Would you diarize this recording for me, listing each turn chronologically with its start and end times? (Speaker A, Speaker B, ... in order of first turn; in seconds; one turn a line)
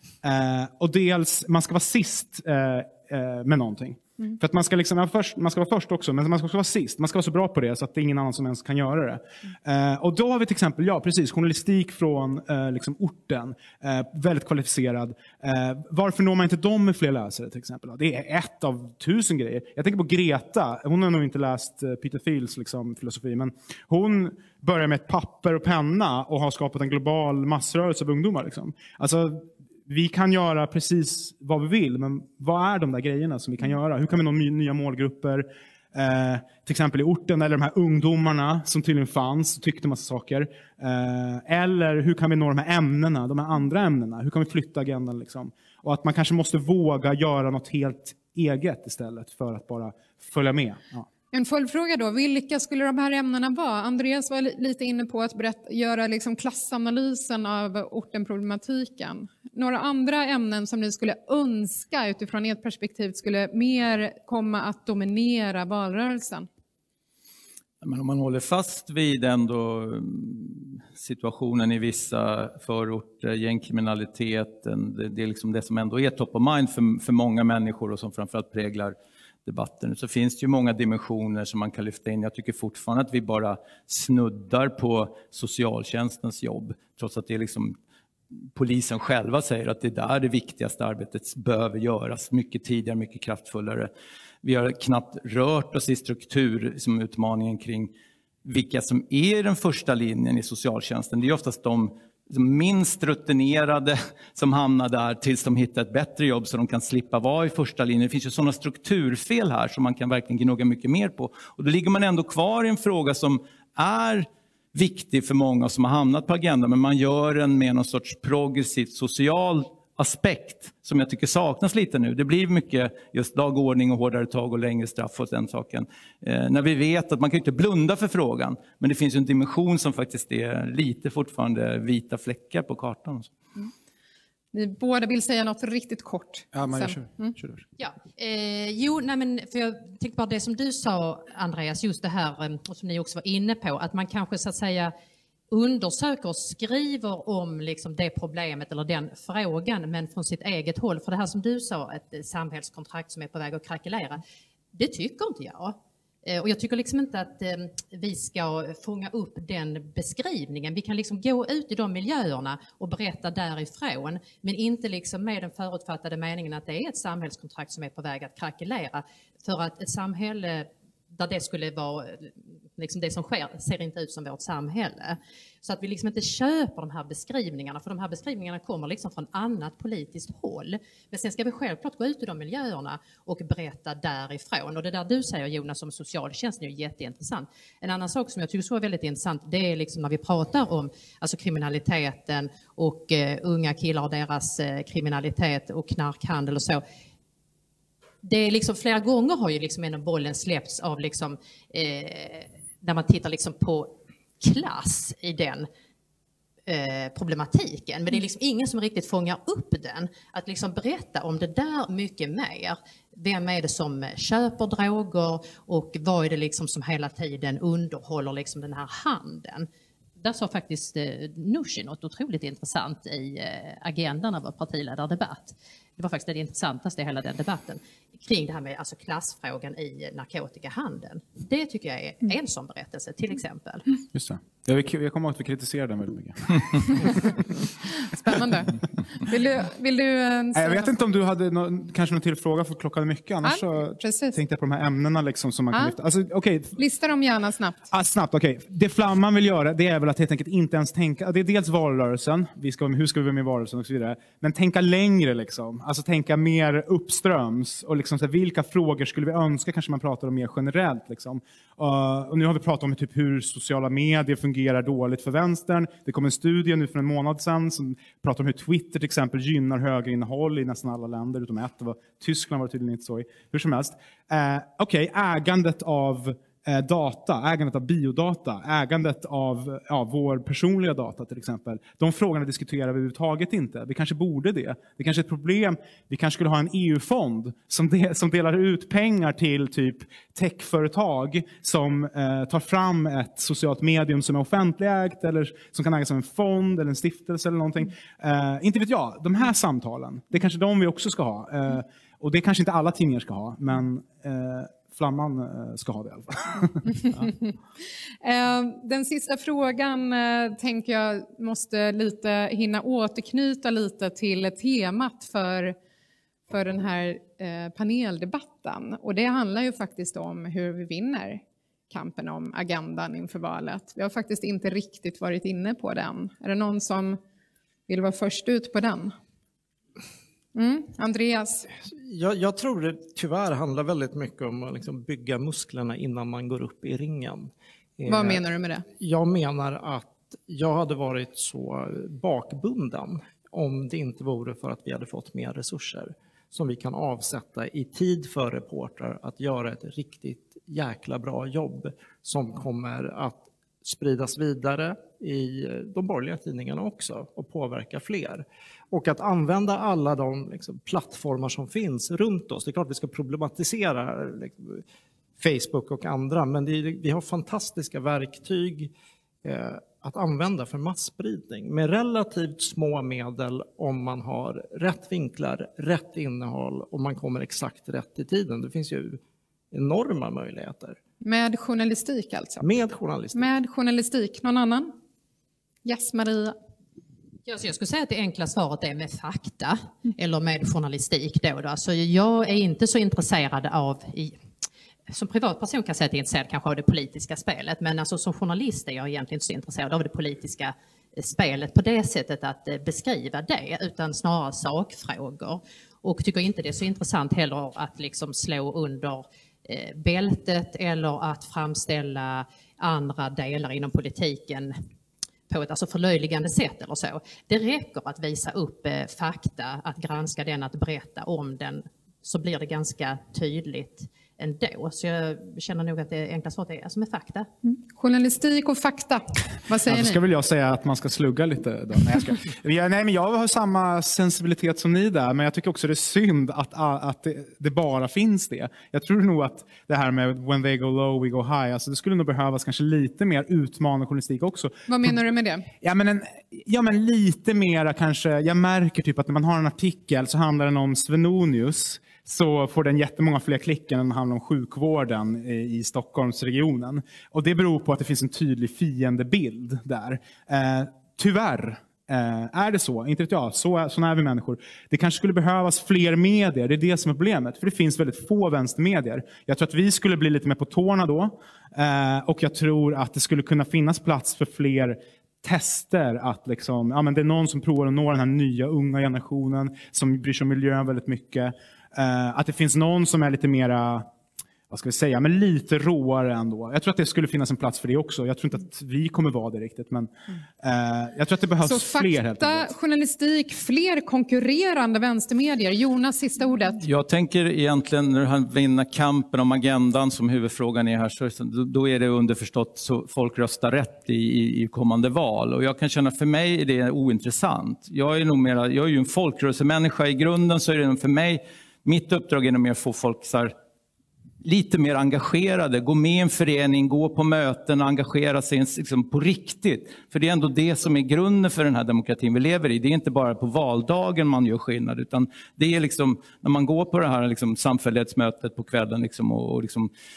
Speaker A: 0.2-51.1
Speaker B: 51.3-66.5
Speaker C: 67.8-87.8
Speaker C: 88.5-93.9
Speaker C: 94.4-97.9
Speaker C: 98.5-133.3
Speaker B: 134.5-137.3
Speaker A: 136.5-137.6
Speaker D: 137.8-144.9
Speaker D: 145.5-154.2
Speaker D: 154.7-196.8
Speaker D: 198.2-205.7
Speaker D: 206.7-219.7
Speaker D: 220.2-233.9
Speaker A: 234.1-237.4
Speaker B: 238.1-240.9
Speaker A: 240.5-246.8
Speaker B: 243.4-244.4
Speaker B: 246.8-247.9
Speaker A: 247.9-307.3
Speaker B: 307.1-307.5
Speaker B: 308.2-315.8
Speaker B: 316.5-327.2
Speaker B: 327.9-329.1
Speaker B: 330.6-331.7
Speaker E: 331.9-364.8
Speaker B: 338.1-338.9
Speaker E: 365.4-368.9
Speaker E: 369.4-379.2
Speaker E: 379.7-381.0
Speaker B: 381.2-382.7
Speaker E: 382.6-383.5
Speaker B: 383.4-384.9
Speaker B: 385.9-386.6
Speaker D: 387.5-394.4
Speaker D: 395.1-414.8
Speaker D: 415.5-427.5
Speaker B: 427.6-430.2
Speaker A: 429.9-445.2
Speaker B: 444.9-445.7
Speaker A: 445.8-484.1
Speaker A: 484.7-492.7
Speaker B: 491.6-496.8
Speaker C: 496.8-513.5
Speaker C: 514.4-529.9